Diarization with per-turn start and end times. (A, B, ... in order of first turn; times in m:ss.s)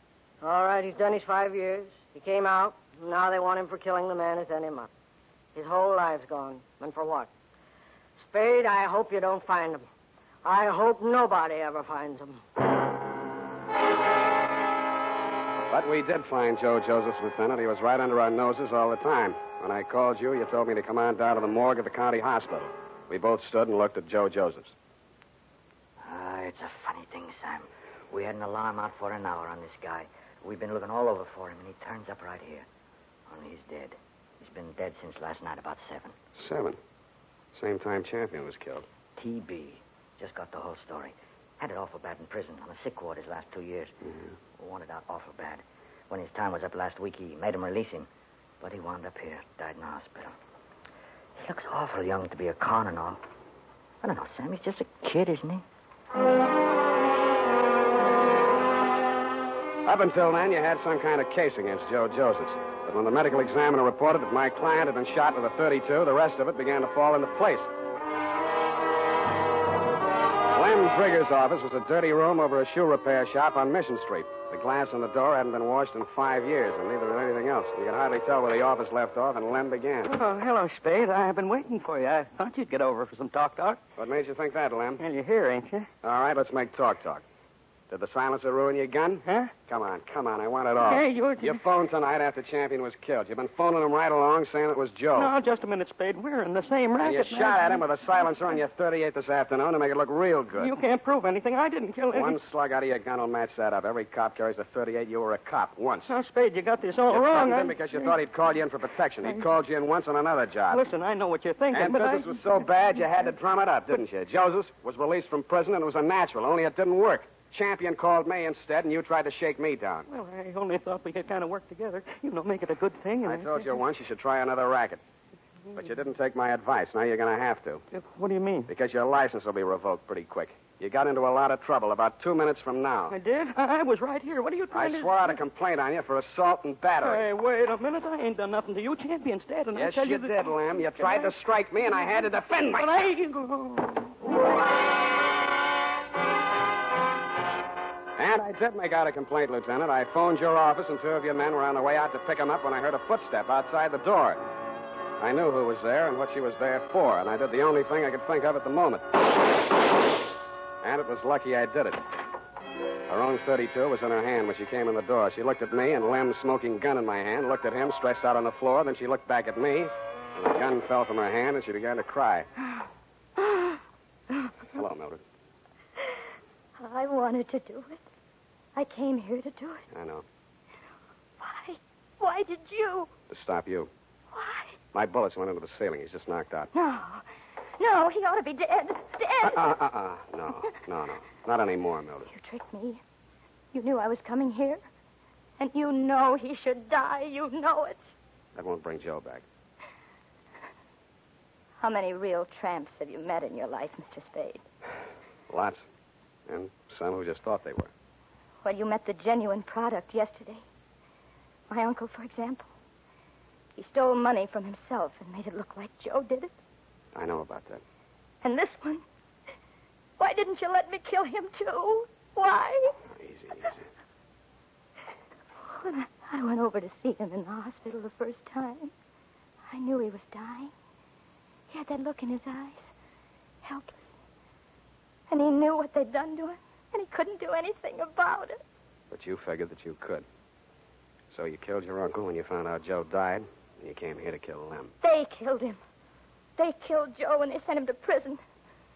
0:00.4-0:04.9 A
0:05.5-0:07.3 A
0:08.2-0:09.8 A
0:10.4-0:12.4 A
0:15.7-0:24.7 B
0:26.0-0:32.6 C
0:33.3-0:36.1 C
0:36.4-0:36.8 B
0:37.5-0:38.8 B
0:39.2-0:43.9 C
0:44.6-0:48.1 C
0:48.6-0:50.3 C
0:51.4-0:53.2 C
0:54.0-0:55.6 C
0:59.8-1:07.7 B
1:10.5-1:20.2 B
1:20.0-1:23.8 D
1:24.0-1:25.0 B
1:25.0-1:25.9 D
1:26.0-1:27.2 B
1:27.9-1:35.3 B
1:29.2-1:29.5 D
1:30.8-1:31.6 D
1:35.1-1:37.8 D
1:37.0-1:40.7 B
1:40.6-1:42.4 D
1:42.1-1:46.1 B
1:46.1-1:48.1 D
1:47.1-1:50.8 B
1:49.2-1:49.5 D
1:50.7-1:52.6 D
1:51.7-2:00.1 B
2:00.1-2:03.7 D
2:03.2-2:05.0 B
2:05.7-2:07.8 B
2:07.9-2:08.7 D
2:08.7-2:13.1 B
2:13.1-2:15.4 D
2:14.7-2:17.3 B
2:17.0-2:21.3 D
2:19.7-2:23.0 B
2:21.9-2:24.1 D
2:28.2-2:34.4 B
2:35.2-2:39.2 B
2:40.8-2:42.0 B
2:43.1-2:52.5 B
2:53.4-2:54.5 E
2:54.7-2:55.2 B
2:56.8-2:58.0 E
2:58.7-2:59.8 E
2:59.9-3:00.2 B
3:01.4-3:03.1 E
3:03.3-3:03.9 B
3:04.3-3:04.8 E
3:04.9-3:06.7 B
3:06.7-3:07.2 E
3:07.8-3:09.7 E
3:09.4-3:12.3 B
3:12.3-3:13.0 E
3:13.7-3:14.8 E
3:15.6-3:18.1 E
3:18.5-3:19.4 B
3:21.8-3:24.6 E
3:25.5-3:25.8 B
3:26.5-3:27.9 B
3:28.6-3:30.6 E
3:31.7-3:32.7 E
3:33.8-3:36.5 E
3:37.1-3:37.8 B
3:38.4-3:39.0 E
3:40.2-3:42.9 E
3:43.0-3:43.8 B
3:45.6-3:48.9 E
3:49.7-3:50.7 E
3:51.7-3:52.9 E
3:53.6-3:54.1 E
3:55.3-3:58.6 E
3:59.1-4:00.2 B
4:01.3-4:04.9 B
4:05.0-4:05.8 E
4:06.6-4:08.4 E